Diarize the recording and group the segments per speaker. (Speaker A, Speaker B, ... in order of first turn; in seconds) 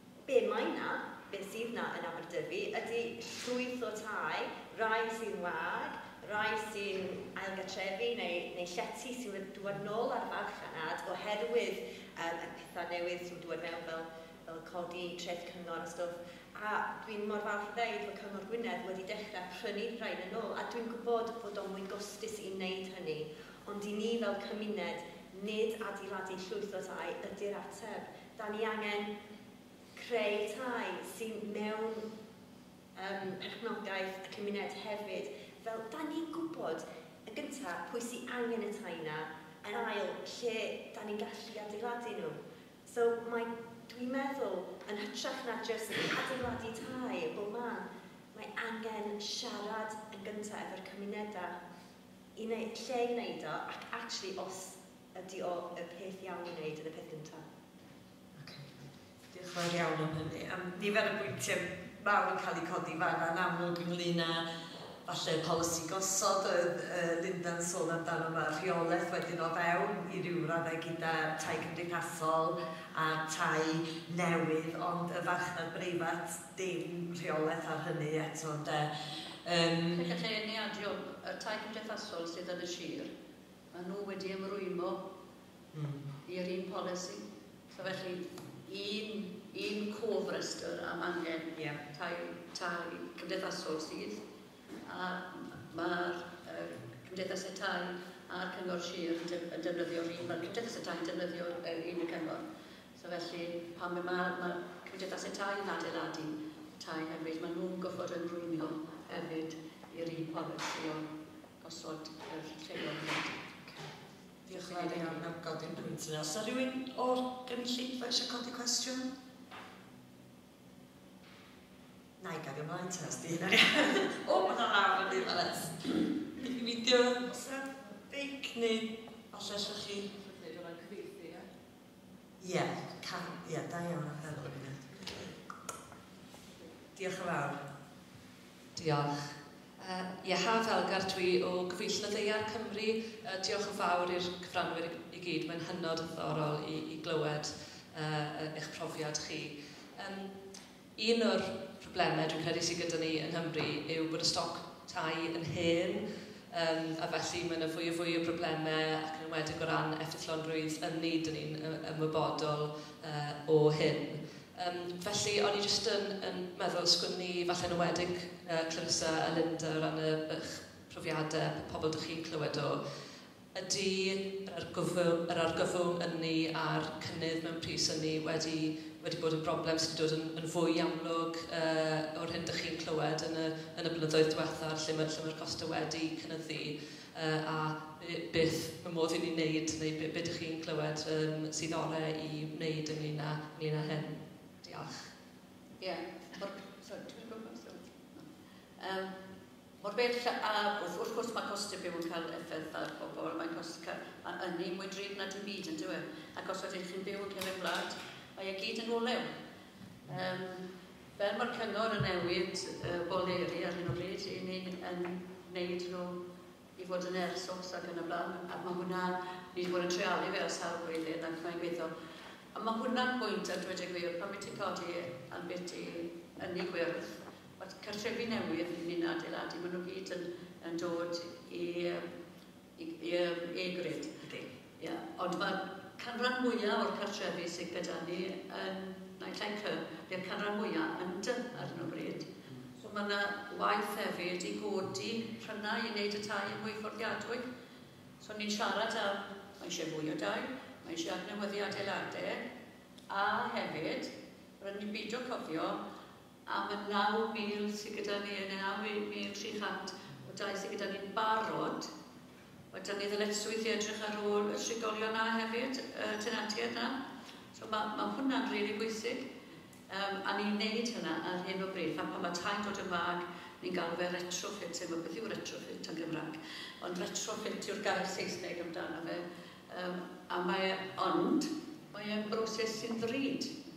Speaker A: 0.3-29.1, 29.9-32.1, 33.0-51.6, 52.4-57.5
Speaker B: 58.4-58.7, 59.3-64.5, 65.0-78.9, 79.4-80.1, 85.7-86.0, 114.5-119.1, 122.2-130.6, 132.4-135.3, 136.9-137.6, 234.2-234.5
Speaker C: 80.0-83.1, 83.7-85.0, 86.2-94.2, 94.8-102.4, 103.0-111.0, 111.6-113.5, 114.5-115.2, 195.8-198.3, 198.8-199.2, 199.8-209.3, 210.1-210.6, 211.2-216.2, 216.8-221.9, 222.5-232.1, 232.8-234.2, 234.8-247.4, 248.2-252.4, 253.1-255.8, 256.5-261.9, 262.7-267.0, 267.5-269.3, 269.9-283.6
Speaker D: 138.8-150.4, 150.9-173.0, 173.5-195.2